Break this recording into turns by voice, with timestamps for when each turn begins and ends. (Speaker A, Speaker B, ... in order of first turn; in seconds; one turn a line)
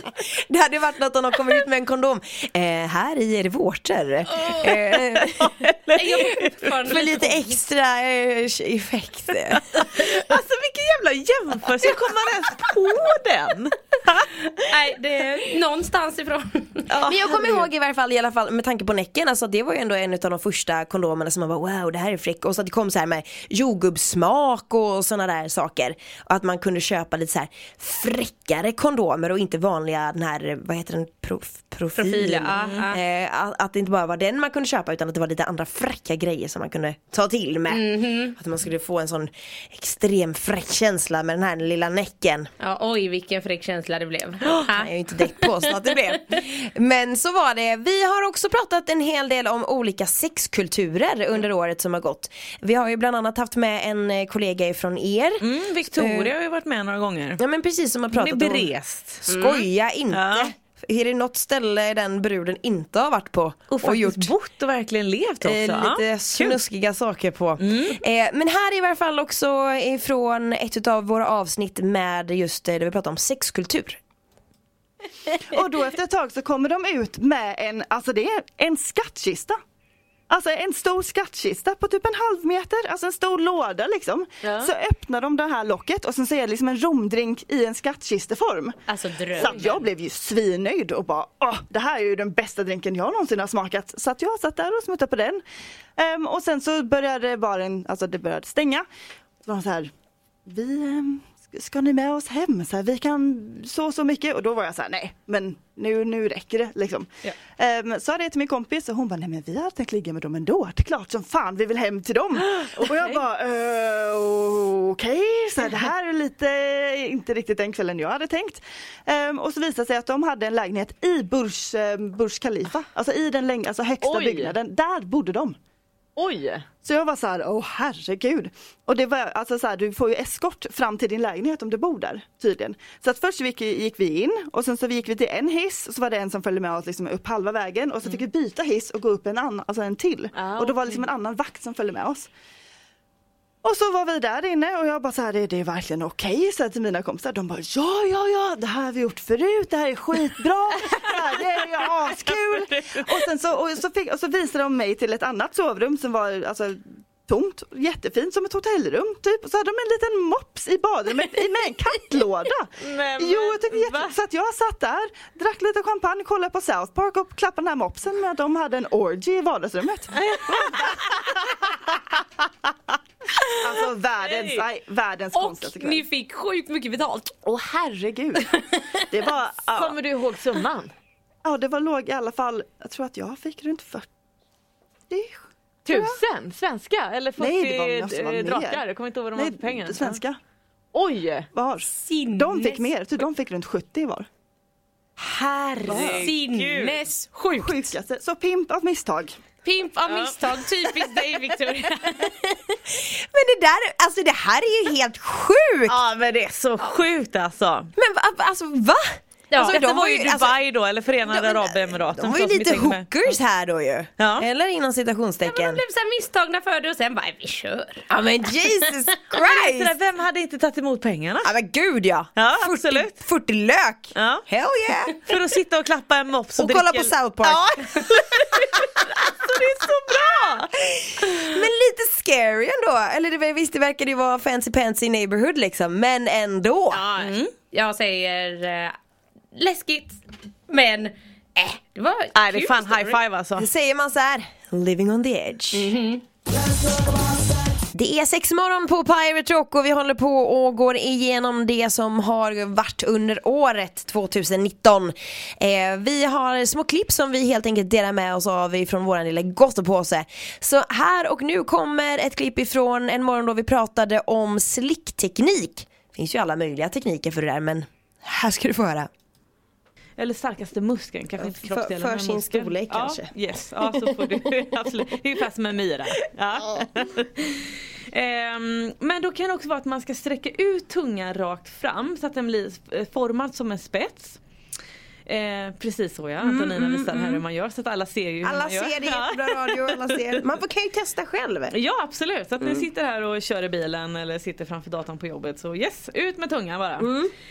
Speaker A: 0.3-5.5
Speaker B: 4.4-4.7
Speaker C: 4.8-6.5
Speaker B: 5.9-7.6
Speaker A: 6.8-9.7
Speaker C: 9.5-14.3
Speaker B: 14.6-16.9
Speaker C: 16.9-17.7
Speaker A: 17.0-42.5
Speaker B: 32.0-33.0
Speaker C: 32.5-32.9
Speaker B: 37.7-38.3
Speaker B: 42.6-45.9
Speaker A: 44.5-56.3
Speaker C: 55.4-57.4
Speaker A: 57.4-58.7
Speaker C: 58.1-59.4
Speaker A: 59.2-64.3
Speaker B: 59.3-59.6
Speaker C: 60.1-60.5
Speaker C: 63.7-66.6
Speaker A: 65.4-74.0
Speaker C: 67.6-68.0
Speaker D: 75.5-79.6
Speaker D: 80.3-88.8
Speaker C: 84.4-84.7
Speaker B: 88.9-89.7
Speaker D: 89.4-95.4
Speaker C: 89.4-89.8
Speaker D: 96.0-98.8
Speaker D: 99.4-99.9
Speaker D: 100.5-125.5
Speaker C: 112.4-113.2
Speaker C: 124.0-124.5
Speaker C: 126.2-126.7
Speaker D: 126.8-142.3
Speaker C: 140.3-141.1
Speaker D: 143.6-170.8
Speaker C: 150.9-153.3
Speaker C: 162.8-164.2
Speaker C: 170.1-171.9
Speaker D: 173.6-176.1
Speaker C: 174.2-174.6
Speaker B: 175.3-177.3
Speaker D: 177.4-178.5
Speaker B: 178.6-179.1
Speaker D: 179.1-180.0
Speaker C: 179.7-180.9
Speaker D: 181.4-184.1
Speaker D: 185.1-186.2
Speaker C: 185.9-190.2
Speaker D: 187.4-188.8
Speaker D: 189.3-190.4
Speaker C: 190.9-191.5
Speaker D: 191.5-194.3
Speaker B: 191.9-192.9
Speaker C: 195.3-197.0
Speaker A: 195.8-196.3
Speaker D: 195.9-196.3
Speaker B: 195.9-197.9
Speaker D: 197.6-199.4
Speaker B: 199.6-202.5
Speaker A: 202.9-206.0
Speaker C: 205.9-207.9
Speaker A: 208.0-210.6
Speaker B: 209.5-209.9
Speaker C: 209.7-213.4
Speaker A: 211.2-215.8
Speaker C: 214.2-214.4
Speaker B: 215.4-218.1
Speaker A: 218.1-219.9
Speaker C: 219.3-221.5
Speaker A: 221.4-225.3
Speaker C: 222.4-223.2
Speaker C: 224.1-224.4
Speaker C: 225.2-230.7
Speaker A: 226.6-227.9
Speaker A: 230.8-237.1
Speaker B: 236.9-239.0
Speaker C: 237.2-237.5
Speaker B: 239.5-243.2
Speaker C: 242.3-243.7
Speaker A: 243.6-245.9
Speaker B: 245.7-246.2
Speaker A: 247.9-269.1
Speaker C: 270.2-284.4
Speaker A: 271.4-273.3
Speaker A: 273.9-274.5
Speaker C: 285.3-290.3
Speaker A: 286.4-287.4
Speaker A: 288.4-291.8
Speaker C: 291.7-297.1
Speaker A: 292.6-292.9
Speaker A: 297.0-297.3